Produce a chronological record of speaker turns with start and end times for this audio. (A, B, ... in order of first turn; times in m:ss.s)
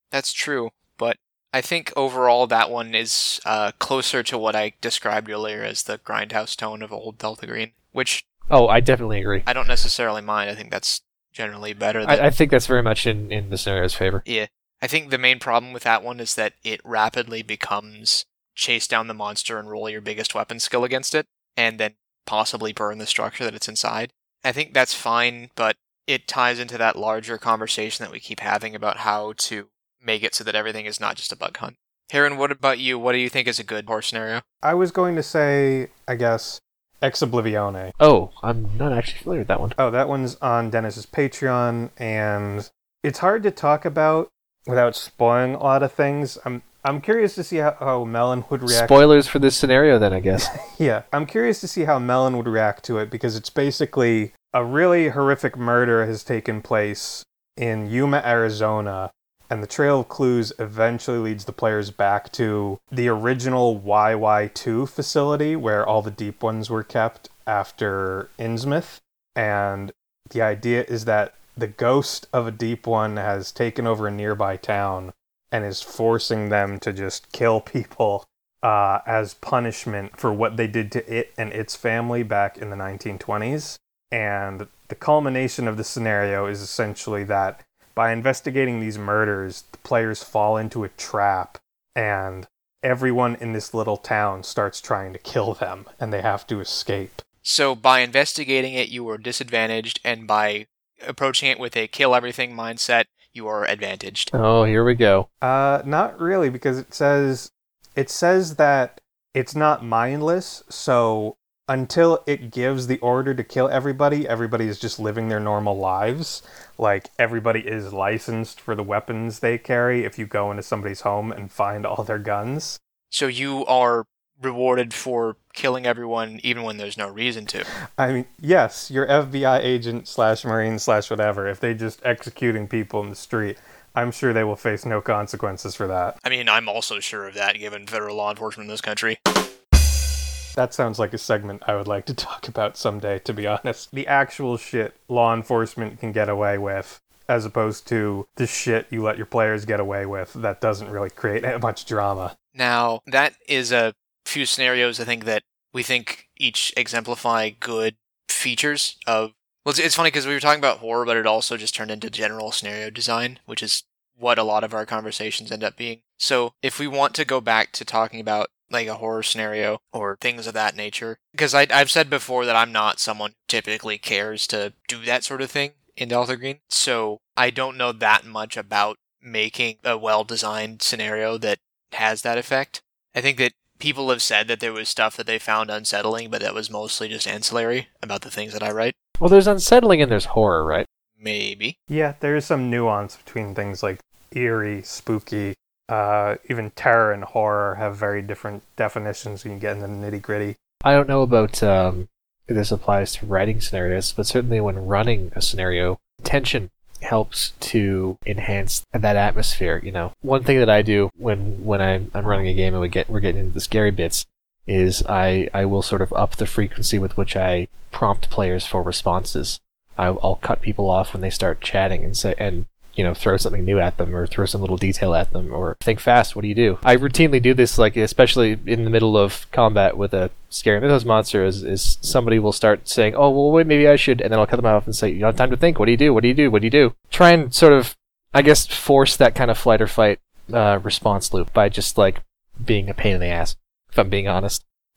0:00.1-0:08.2 A
0:08.5-0:09.5 B
0:09.4-0:12.3 A
0:12.0-0:14.2 B
0:14.2-0:34.4 A
0:34.6-0:37.9 C
0:38.0-0:39.8 B
0:39.8-0:49.0 C
0:48.7-0:50.5 B
0:50.5-1:37.2 C
1:37.4-1:44.3 A
1:44.3-1:45.3 B
1:45.4-2:02.8 C
2:03.1-2:07.7 A
2:08.0-2:16.2 C
2:16.2-2:19.2 A
2:20.6-2:32.3 C
2:32.5-3:09.0 A
3:09.2-3:10.9 B
3:11.2-3:11.8 A
3:11.9-3:20.6 C
3:20.8-4:04.6 B